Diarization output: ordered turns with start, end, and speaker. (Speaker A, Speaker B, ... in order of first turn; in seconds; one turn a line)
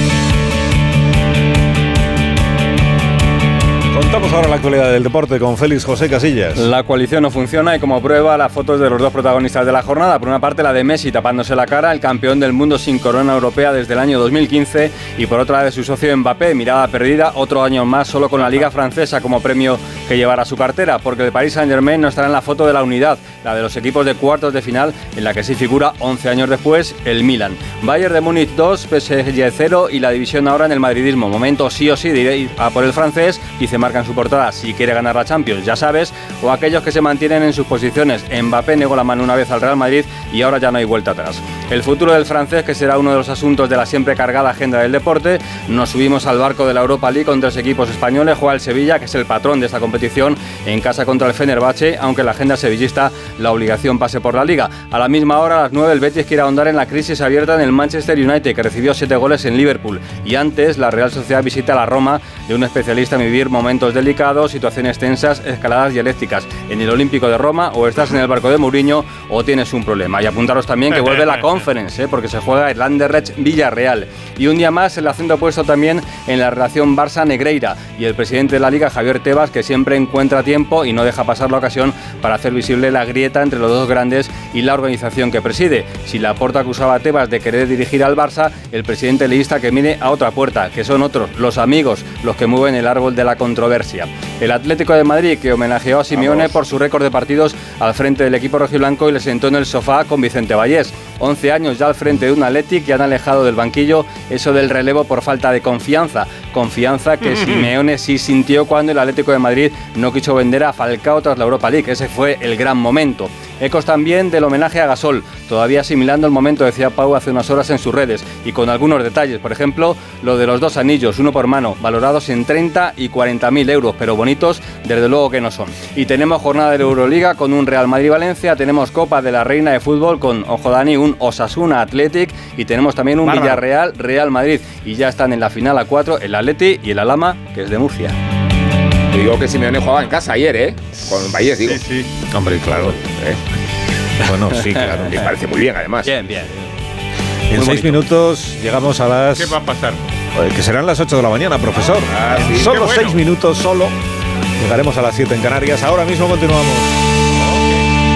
Speaker A: 3.9-6.7
Speaker B: 6.6-138.2
Speaker C: 96.1-96.5
Speaker C: 133.2-133.6
Speaker D: 139.1-141.8
Speaker C: 141.6-142.1
Speaker A: 142.3-142.9
Speaker D: 142.8-143.4
Speaker A: 144.2-145.1
Speaker B: 144.5-145.4
Speaker D: 144.8-146.1
Speaker B: 146.0-146.5
Speaker A: 147.5-149.6
Speaker B: 147.5-148.1
Speaker C: 149.4-150.1
Speaker A: 150.3-153.9
Speaker D: 152.1-152.7
Speaker C: 152.5-153.2
Speaker A: 154.6-156.9
Speaker C: 157.4-157.8